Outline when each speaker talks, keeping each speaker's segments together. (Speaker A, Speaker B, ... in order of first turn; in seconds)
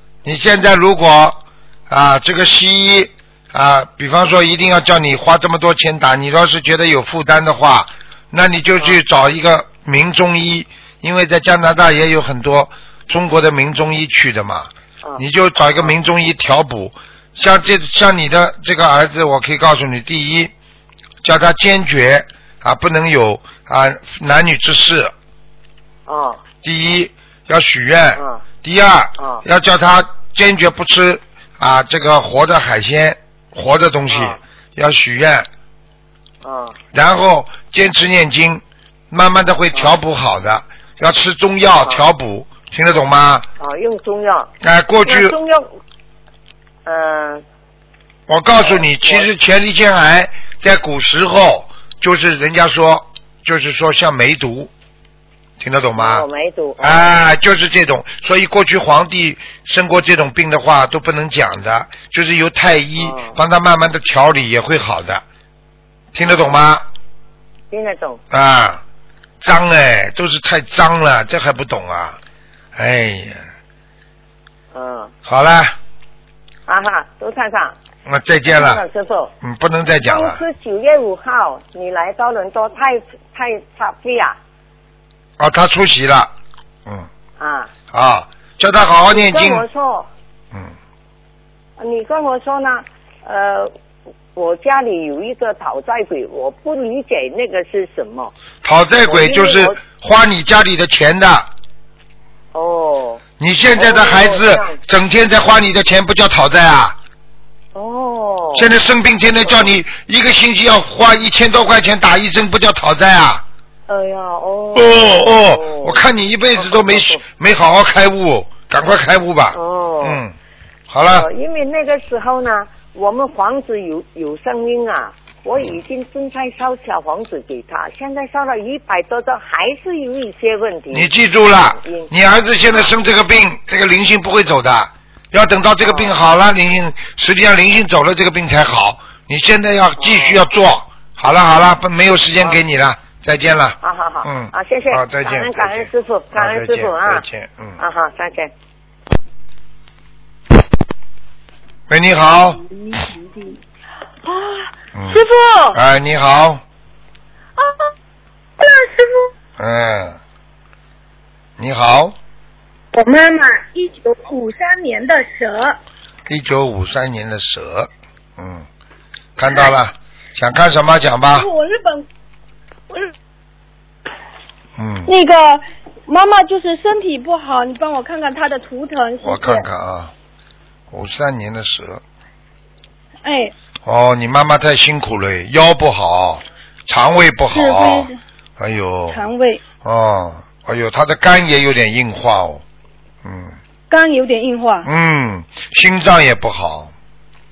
Speaker A: 0.2-20.5, 21.2-25.1, 26.6-35.5, 36.9-43.5, 44.6-45.4, 48.3-54.7, 55.6-56.2, 56.8-65.2, 66.1-66.8, 68.3-68.8, 69.4-72.2, 72.8-73.5, 75.3-75.8, 78.1-78.8, 79.4-80.4, 85.4-86.3, 87.9-89.7, 98.6-101.5, 103.4-107.0, 108.5-113.5, 114.8-120.3, 120.9-121.3, 130.9-147.8, 151.9-152.6, 154.9-156.6, 159.6-160.2, 161.6-162.2, 166.3-168.7, 169.4-171.5, 174.8-175.1, 179.2-180.1, 180.9-182.0, 183.8-189.3, 189.8-192.6, 193.2-193.6, 194.8-196.9
Speaker B: 26.1-26.5, 28.2-28.4, 34.1-34.4, 36.4-36.8, 43.6-44.5, 45.0-45.7, 46.9-47.4, 48.6-49.3, 56.0-57.1, 63.0-63.4, 66.2-66.5, 67.7-68.2, 74.7-75.1, 76.7-77.8, 78.5-79.3, 80.0-84.4, 87.4-87.7, 89.1-90.1, 91.8-93.7, 94.3-98.3, 99.0-99.8, 102.5-104.8, 107.7-108.7, 113.9-117.2, 119.5-120.2, 121.1-131.1, 131.7-132.1, 132.7-132.9, 135.8-136.1, 140.0-140.4, 143.8-147.2, 147.8-148.5
Speaker C: 152.6-153.6, 154.2-155.8, 157.6-157.9, 158.6-159.3, 162.9-165.8, 171.3-172.1, 175.1-179.7, 183.2-183.5, 187.5-188.2, 189.1-189.6, 193.9-194.9